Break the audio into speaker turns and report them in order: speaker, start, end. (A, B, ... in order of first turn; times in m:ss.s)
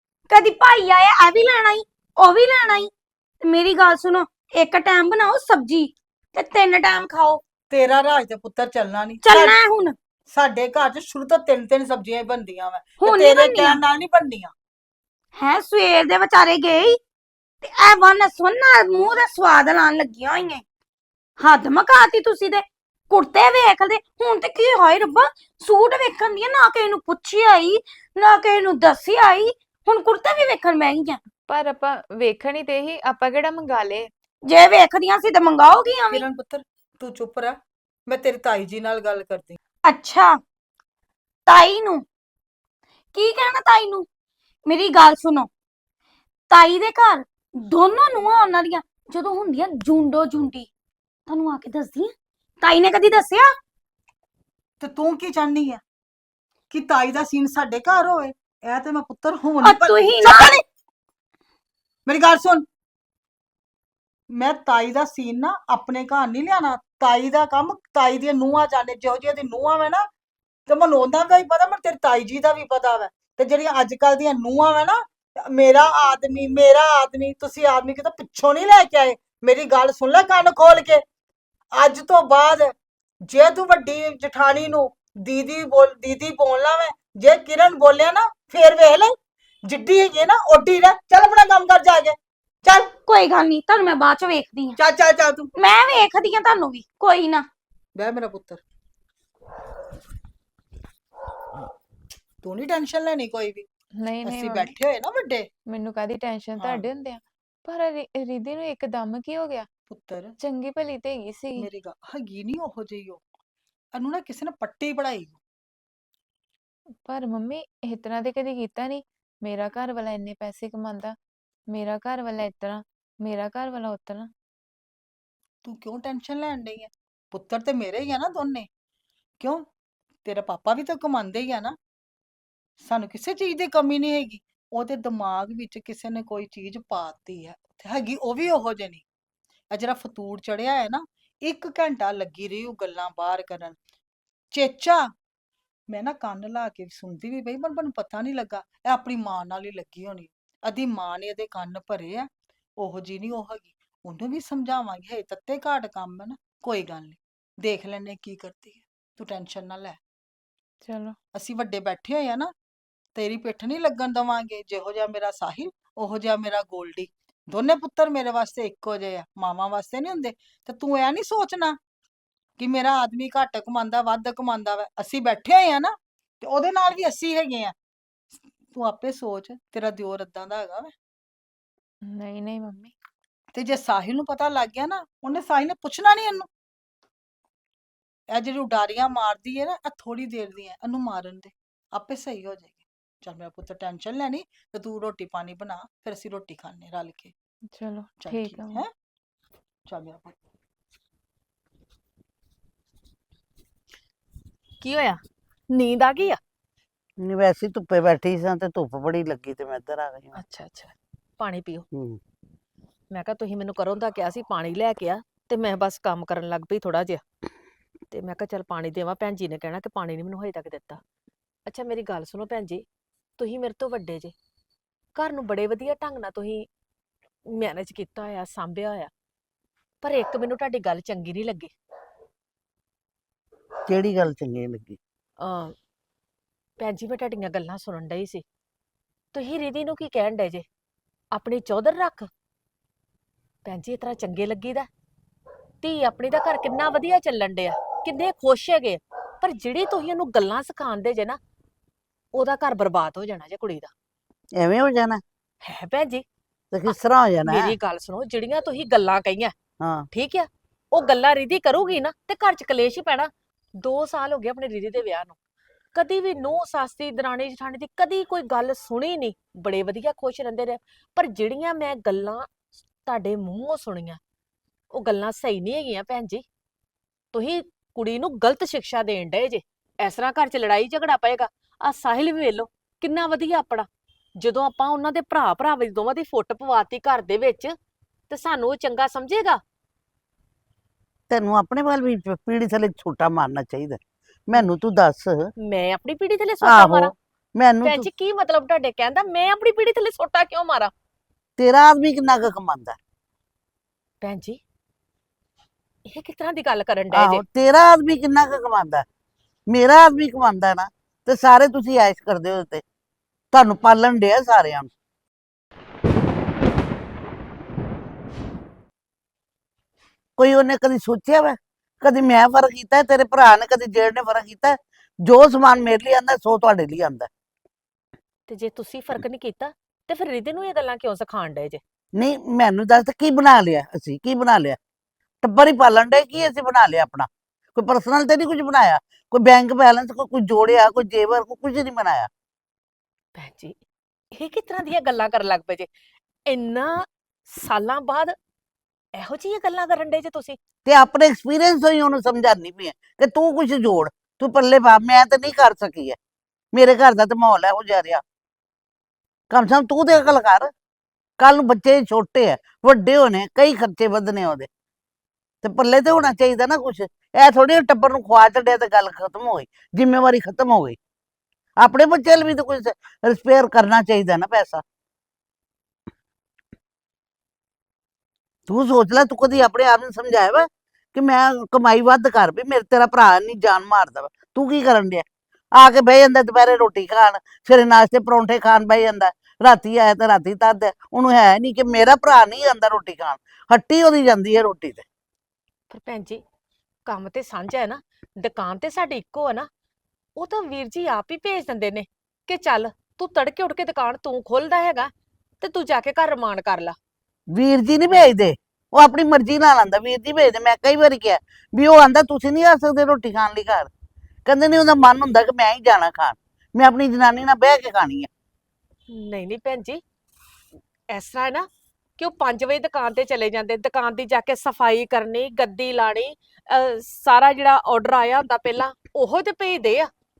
0:00.3-0:02.9 A
0:03.4-0:07.4 A
0:07.7-0:09.6 B
0:09.2-0:10.0 A
0:10.3-0:14.5 B
0:13.0-0:13.8 A
0:15.4-0:17.0 A
0:17.6-0:20.6 A
0:21.4-0:31.2 A
0:31.4-0:34.1 C
0:34.5-0:36.2 A
0:36.1-0:39.6 B
0:39.9-0:40.4 A
0:41.5-0:42.0 A
0:43.1-0:44.0 A
0:44.7-0:45.5 A
0:46.5-0:50.7 A
0:51.3-0:53.5 A
0:54.8-0:55.8 B
0:56.7-1:00.6 B
0:59.6-1:00.6 A
1:02.0-1:02.6 B
1:04.3-1:10.1 B
1:10.7-1:21.0 B
1:21.7-1:22.7 B
1:23.2-1:32.9 B
1:33.0-1:34.8 A
1:34.8-1:35.5 B
1:35.6-1:37.5 A
1:38.0-1:38.6 B
1:42.4-1:43.7 B
1:44.0-1:44.7 C
1:44.2-1:45.5 B
1:45.7-1:49.7 C
1:46.6-1:46.9 B
1:49.9-1:50.4 B
1:50.4-1:51.7 C
1:51.6-1:53.2 B
1:53.9-1:55.4 B
1:57.0-2:01.2 C
2:01.7-2:04.3 C
2:05.6-2:08.7 B
2:09.4-2:09.6 B
2:10.2-2:11.8 B
2:12.8-2:19.0 B
2:19.7-2:23.8 B
2:24.5-2:25.1 B
2:25.9-2:40.0 B
2:40.8-2:41.2 C
2:41.3-2:42.5 B
2:43.1-2:51.8 B
2:52.6-2:57.7 B
2:58.7-3:00.9 B
3:02.0-3:02.9 C
3:03.5-3:06.5 B
3:08.3-3:17.3 B
3:17.7-3:18.8 C
3:18.2-3:18.9 B
3:19.9-3:20.4 B
3:24.8-3:26.4 D
3:27.2-3:30.4 E
3:30.4-3:31.9 D
3:31.9-3:32.2 E
3:33.1-3:37.2 D
3:38.1-3:41.0 D
3:41.7-3:42.8 D
3:43.4-3:44.3 D
3:45.1-3:46.7 D
3:47.5-3:49.1 D
3:50.0-3:51.7 D
3:53.9-3:55.0 E
3:55.4-3:55.8 D
3:56.8-3:58.4 D
3:59.3-4:00.6 D
4:01.3-4:02.3 D
4:03.6-4:04.9 D
4:05.8-4:11.4 D
4:12.3-4:13.9 D
4:14.6-4:15.2 E
4:15.6-4:16.2 D
4:16.7-4:17.8 E
4:17.4-4:19.5 D
4:19.8-4:20.1 E
4:20.1-4:25.4 D
4:25.9-4:32.5 D
4:33.0-4:34.2 D
4:34.9-4:36.4 D
4:37.3-4:43.9 D
4:44.4-4:47.8 D
4:48.3-4:49.6 D
4:51.3-4:55.5 E
4:55.6-4:57.1 D
4:56.6-4:58.1 E
4:57.8-5:00.9 D
5:01.6-5:03.0 E
5:04.2-5:04.6 D
5:06.1-5:07.4 D
5:07.1-5:09.0 E
5:09.7-5:12.8 E
5:13.5-5:14.9 E
5:20.4-5:27.3 E
5:28.5-5:31.8 D
5:32.2-5:34.8 E
5:35.4-5:42.3 E
5:43.4-5:43.8 D
5:44.3-5:45.9 D
5:46.5-5:48.4 D
5:49.2-5:50.6 D
5:50.8-5:56.2 E
5:56.7-5:58.2 E
5:59.5-6:00.7 E
6:01.4-6:04.7 E
6:05.6-6:11.0 E
6:11.8-6:14.8 E
6:18.7-6:25.2 E
6:25.8-6:35.0 E
6:35.9-6:36.4 D
6:37.1-6:39.7 D
6:40.4-6:45.1 D
6:45.6-6:47.0 D
6:47.5-6:53.9 E
6:54.4-6:58.3 E
6:59.1-7:00.0 D
7:01.1-7:10.1 D